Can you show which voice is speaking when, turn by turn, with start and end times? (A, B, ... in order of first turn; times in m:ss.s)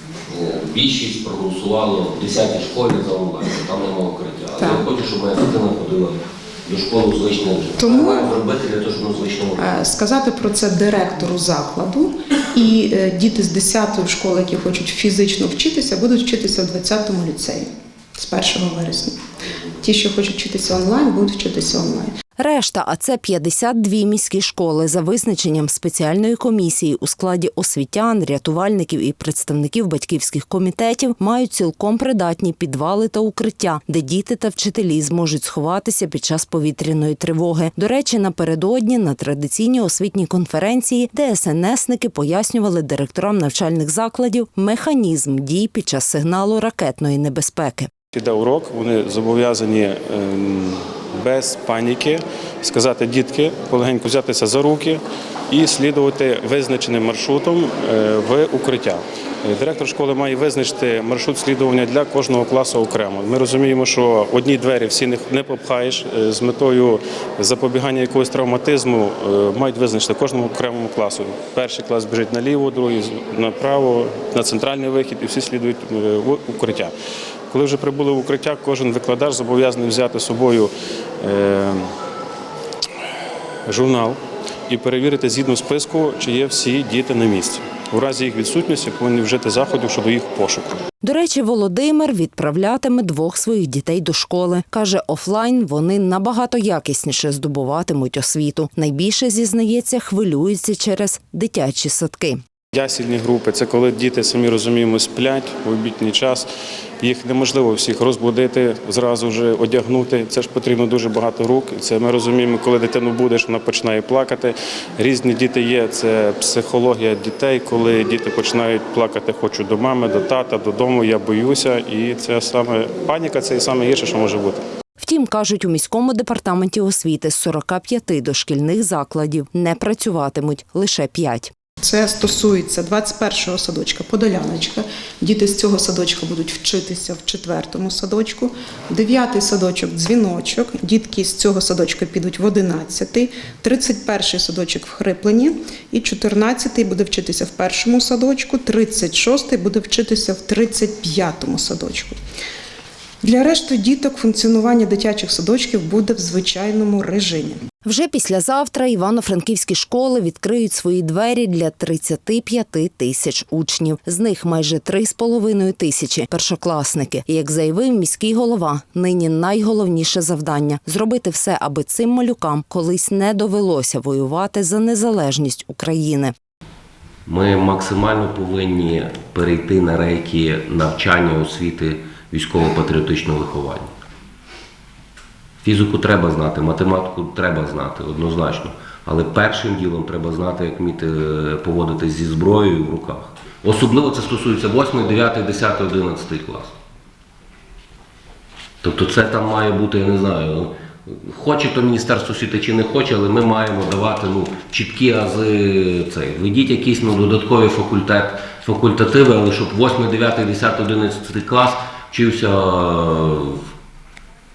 0:00.3-0:09.7 A
0:04.6-0:04.9 B
0:07.8-0:08.3 B
0:09.6-0:19.2 B
0:19.8-0:22.1 B
0:22.4-0:47.9 C
0:48.1-1:16.9 D
1:17.5-1:21.9 D
1:23.7-1:30.8 D
1:31.0-1:42.4 C
1:42.7-1:46.5 D
1:47.0-2:04.6 D
2:05.0-2:11.5 C
2:11.8-2:32.2 B
2:33.2-2:37.6 B
2:37.8-2:56.3 C
2:57.2-3:03.9 A
3:05.6-3:16.7 A
3:18.8-3:33.6 A